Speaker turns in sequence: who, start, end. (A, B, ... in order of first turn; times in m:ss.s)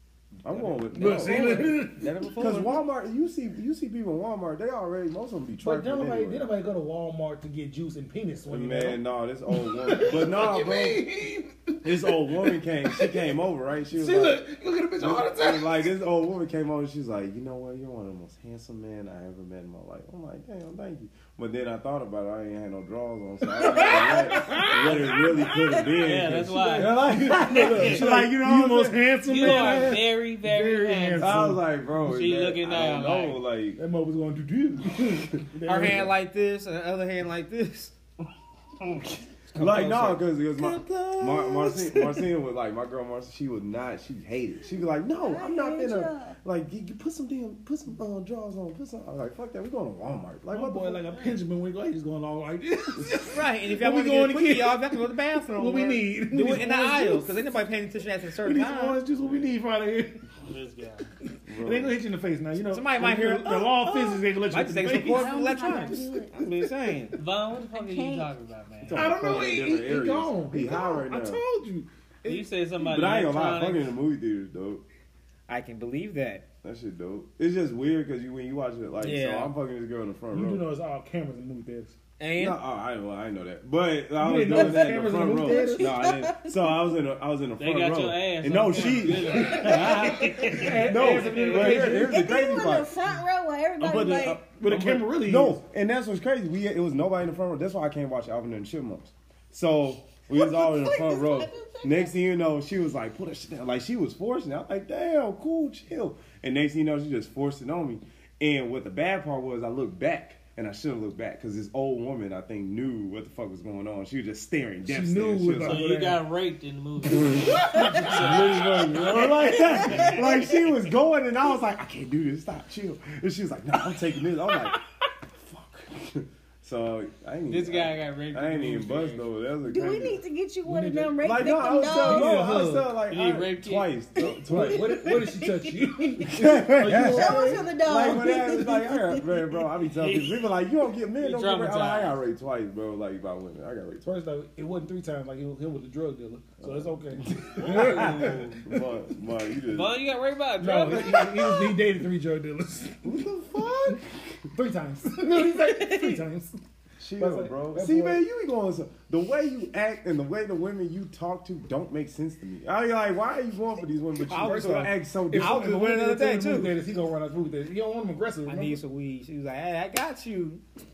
0:00.4-0:01.8 A
0:00.5-0:02.8 B
0:00.9-0:02.2 C
0:02.4-0:06.5 A
0:05.6-0:13.4 C
0:08.5-0:11.0 A
0:11.8-0:14.4 A
0:13.9-0:15.9 C
0:15.0-0:30.0 A
0:23.5-0:25.5 C
0:23.6-0:24.7 D
0:24.8-0:25.1 E
0:25.4-0:26.0 D
0:25.8-0:28.0 E
0:26.7-0:31.6 C
0:29.3-0:33.4 E
0:31.2-0:33.8 A
0:33.8-0:36.1 C
0:35.6-0:37.9 B
0:39.5-0:41.3 B
0:39.6-0:51.1 A
0:41.6-0:42.0 D
0:45.1-0:46.4 D
0:50.5-0:57.5 C
0:53.3-0:59.0 B
0:58.4-1:00.3 C
1:00.5-1:01.1 E
1:01.5-1:02.0 A
1:01.5-1:07.2 C
1:02.7-1:03.9 B
1:03.9-1:04.2 D
1:04.5-1:07.2 B
1:05.0-1:06.3 D
1:07.2-1:09.2 E
1:07.7-1:08.3 D
1:08.8-1:11.4 A
1:08.9-1:12.5 C
1:12.3-1:13.9 E
1:12.8-1:14.8 A
1:15.5-1:16.4 B
1:16.6-1:20.6 A
1:19.0-1:19.5 B
1:20.3-1:22.0 C
1:22.2-1:22.6 B
1:22.4-1:32.9 A
1:24.2-1:26.0 C
1:24.5-1:26.8 D
1:27.6-1:30.8 E
1:28.8-1:32.2 C
1:29.4-1:30.6 D
1:30.6-1:32.1 B
1:32.0-1:34.5 D
1:33.8-1:35.6 C
1:34.3-1:55.8 A
1:40.3-1:42.2 D
1:54.9-1:56.2 C
1:55.6-2:00.3 E
1:57.1-2:04.8 A
1:57.2-1:59.0 C
1:57.6-1:58.2 D
1:59.6-2:00.2 D
2:05.3-2:10.2 A
2:07.5-2:09.3 E
2:09.7-2:12.4 D
2:10.6-2:12.9 C
2:11.2-2:15.1 A
2:13.1-2:13.9 E
2:14.2-2:19.2 D
2:14.5-2:18.2 C
2:16.3-2:24.1 A
2:20.0-2:20.5 E
2:21.2-2:22.2 E
2:24.0-2:29.0 C
2:26.6-2:30.0 A
2:27.6-2:28.6 E
2:29.7-2:31.6 E
2:30.6-2:33.2 C
2:30.9-2:31.6 A
2:33.0-2:34.5 A
2:34.5-2:36.6 C
2:35.6-2:36.2 D
2:37.0-2:45.8 A
2:37.2-2:38.2 C
2:44.2-2:46.8 B
2:44.4-2:48.8 C
2:48.5-2:50.6 B